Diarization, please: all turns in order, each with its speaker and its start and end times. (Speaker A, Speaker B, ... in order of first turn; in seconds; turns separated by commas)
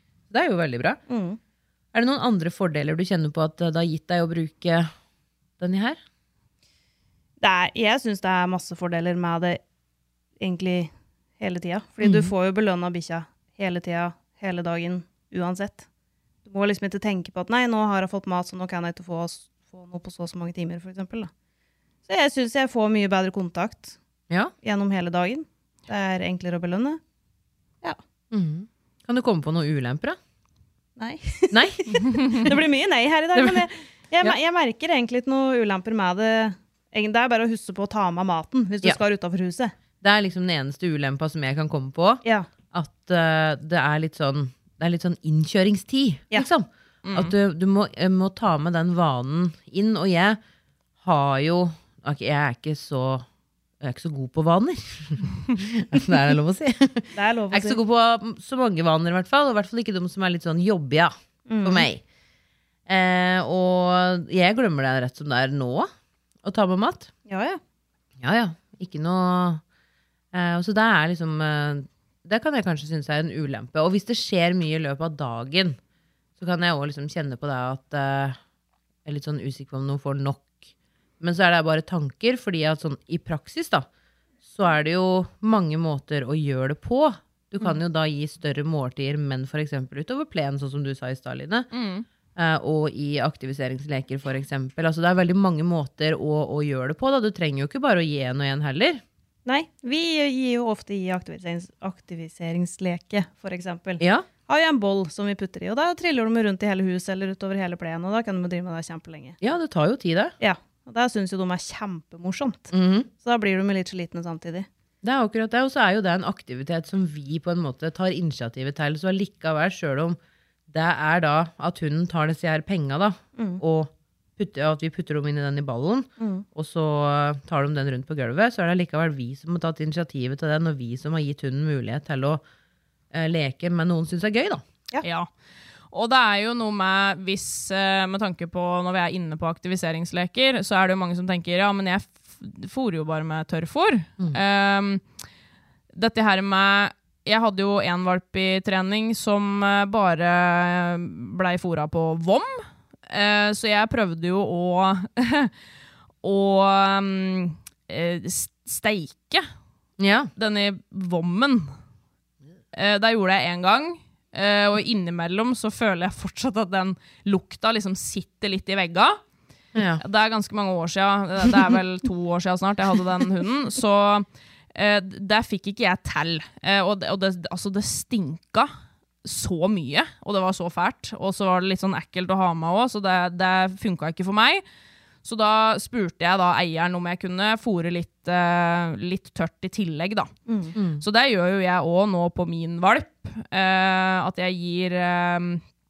Speaker A: 0.3-1.0, Speaker B: 1.1-1.4, Speaker A: 1.9-4.9, Speaker A: 5.6-6.0, Speaker B: 7.4-9.6, Speaker B: 10.4-15.9, Speaker A: 12.0-12.3, Speaker B: 16.4-21.3, Speaker B: 22.1-24.0, Speaker B: 24.6-27.0, Speaker A: 28.3-30.2, Speaker B: 31.0-39.7, Speaker A: 31.5-32.6, Speaker A: 33.4-33.7, Speaker A: 40.0-50.4, Speaker C: 47.0-47.3, Speaker A: 51.0-53.3, Speaker A: 53.8-62.0, Speaker B: 57.1-57.8, Speaker B: 61.5-61.9, Speaker A: 62.9-65.9, Speaker A: 66.4-67.1, Speaker B: 67.3-67.6, Speaker A: 68.2-69.6, Speaker A: 70.3-75.8, Speaker A: 76.4-78.4, Speaker A: 79.0-80.7, Speaker A: 81.2-83.9, Speaker A: 84.5-91.7, Speaker C: 91.7-92.1, Speaker A: 92.4-99.0, Speaker B: 99.5-109.4, Speaker A: 104.0-104.3, Speaker A: 109.4-110.3, Speaker B: 110.4-114.7, Speaker A: 112.7-113.1, Speaker A: 115.0-132.4, Speaker B: 123.4-123.6, Speaker B: 126.2-126.5, Speaker A: 133.1-134.6, Speaker C: 135.0-135.3, Speaker C: 135.9-145.0, Speaker C: 145.9-155.5, Speaker C: 156.2-159.4, Speaker A: 160.0-160.3, Speaker C: 160.4-161.7, Speaker C: 162.7-169.2, Speaker A: 169.8-170.0, Speaker C: 170.0-178.7, Speaker C: 179.2-184.6, Speaker C: 185.2-190.3, Speaker B: 190.5-190.7, Speaker A: 190.8-191.0, Speaker C: 191.0-195.6